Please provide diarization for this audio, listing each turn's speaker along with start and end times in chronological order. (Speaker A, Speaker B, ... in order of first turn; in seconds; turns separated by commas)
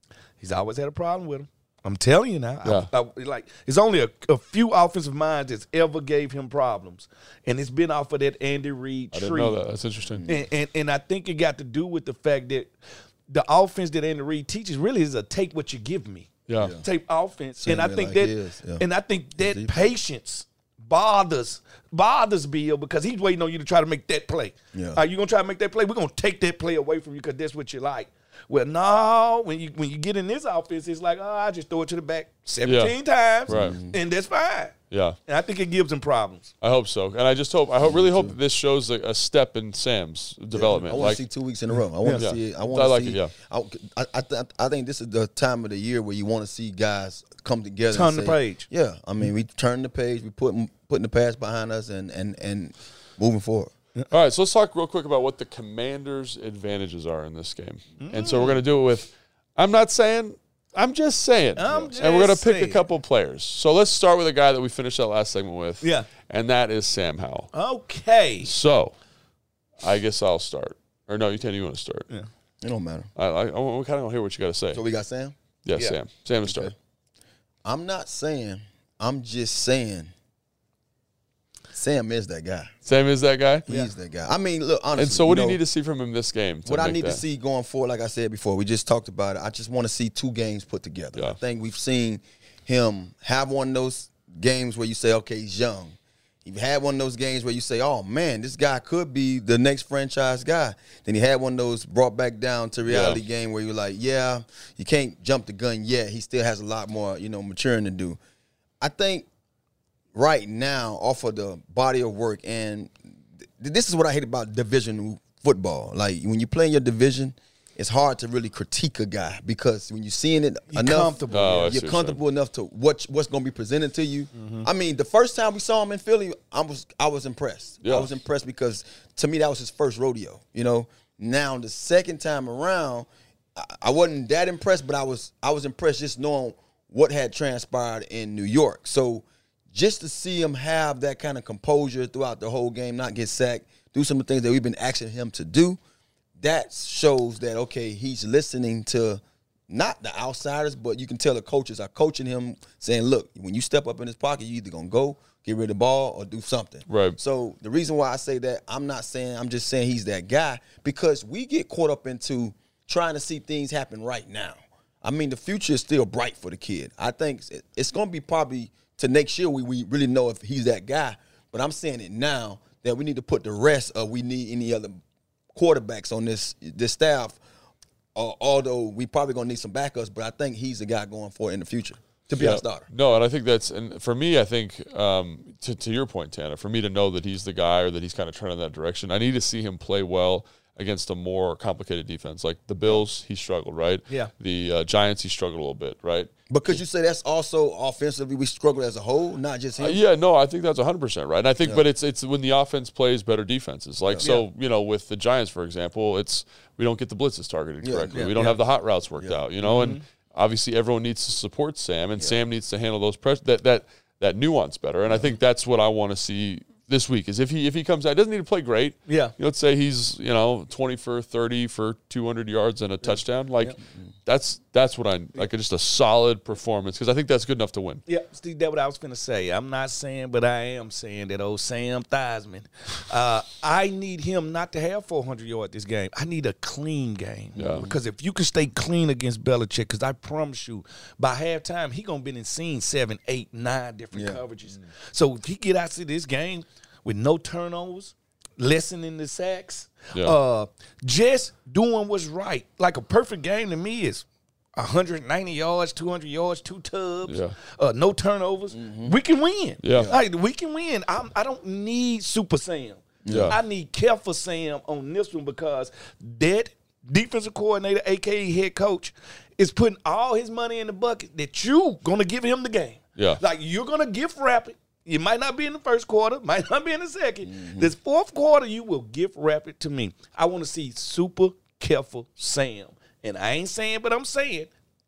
Speaker A: 0.4-9.6, Speaker B: 2.6-2.9, Speaker B: 9.1-10.3, Speaker C: 10.1-10.4, Speaker A: 10.2-12.7, Speaker A: 13.3-36.5, Speaker B: 16.5-16.8, Speaker C: 16.6-16.8, Speaker C: 17.6-18.8, Speaker C: 19.4-19.9, Speaker C: 24.7-25.0, Speaker B: 32.6-33.8, Speaker C: 33.5-34.0, Speaker B: 34.9-35.2, Speaker B: 36.6-41.2, Speaker C: 37.8-38.3, Speaker C: 40.5-53.7, Speaker B: 42.1-43.3, Speaker A: 47.9-48.6, Speaker B: 54.1-67.5, Speaker A: 58.0-58.6, Speaker A: 61.5-62.8, Speaker A: 65.8-66.1, Speaker A: 67.5-68.5, Speaker B: 68.4-68.9, Speaker B: 69.8-72.1, Speaker C: 72.6-73.1, Speaker B: 73.2-74.8, Speaker C: 74.7-75.3, Speaker B: 75.6-76.7, Speaker C: 76.5-76.7, Speaker C: 77.6-80.1, Speaker C: 81.7-82.7, Speaker B: 82.8-83.7, Speaker C: 83.7-85.6, Speaker B: 84.9-87.2, Speaker C: 86.7-108.2, Speaker B: 102.8-103.2, Speaker C: 108.8-109.2, Speaker C: 110.1-145.8, Speaker A: 120.7-121.7, Speaker B: 121.3-122.2, Speaker A: 124.3-124.7, Speaker B: 127.8-128.1, Speaker C: 146.4-174.9, Speaker B: 156.9-157.2, Speaker C: 175.5-177.4, Speaker C: 178.1-182.9, Speaker B: 182.3-196.3, Speaker C: 196.5-200.0, Speaker B: 199.8-228.0, Speaker C: 207.8-208.3, Speaker A: 208.1-208.6, Speaker A: 209.6-210.0, Speaker A: 219.1-219.3, Speaker A: 223.0-223.7, Speaker A: 228.1-254.2, Speaker B: 237.6-237.9, Speaker C: 244.1-244.4, Speaker A: 254.8-284.7, Speaker B: 257.2-257.5, Speaker C: 258.7-259.1, Speaker B: 259.8-260.1, Speaker C: 263.2-263.6, Speaker B: 263.3-263.6, Speaker C: 277.4-277.9